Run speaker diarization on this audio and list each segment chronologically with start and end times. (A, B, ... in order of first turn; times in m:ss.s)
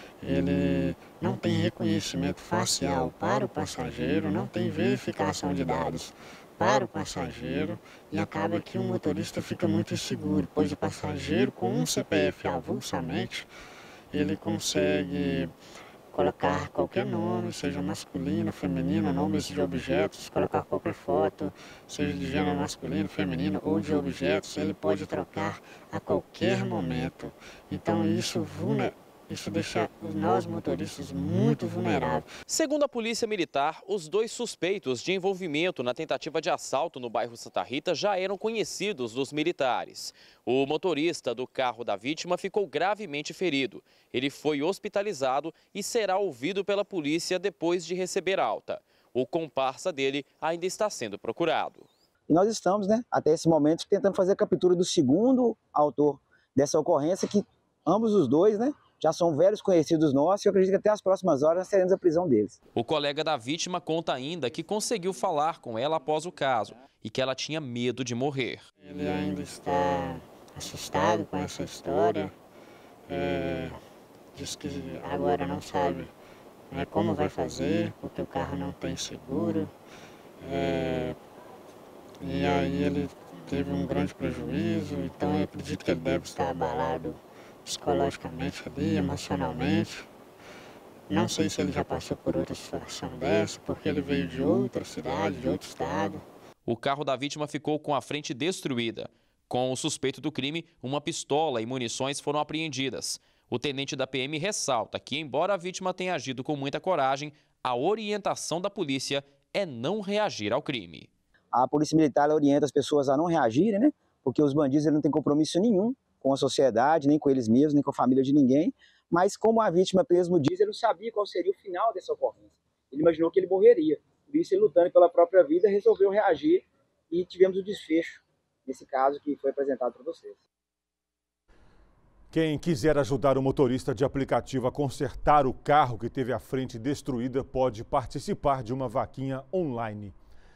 0:00.2-0:13.5 A
0:14.1-0:15.5 A
0:16.1-0:32.3 A
0:32.5-0:51.9 B
0:52.3-1:02.5 C
1:02.7-1:08.6 B
1:08.8-1:12.3 A
1:13.1-1:13.7 A
1:14.3-1:16.1 A
1:16.7-1:19.7 A
1:20.4-1:21.2 A
1:22.2-1:30.1 A
1:31.1-1:36.2 A
1:36.6-1:51.1 B
1:51.5-2:10.4 C
2:12.3-2:20.1 D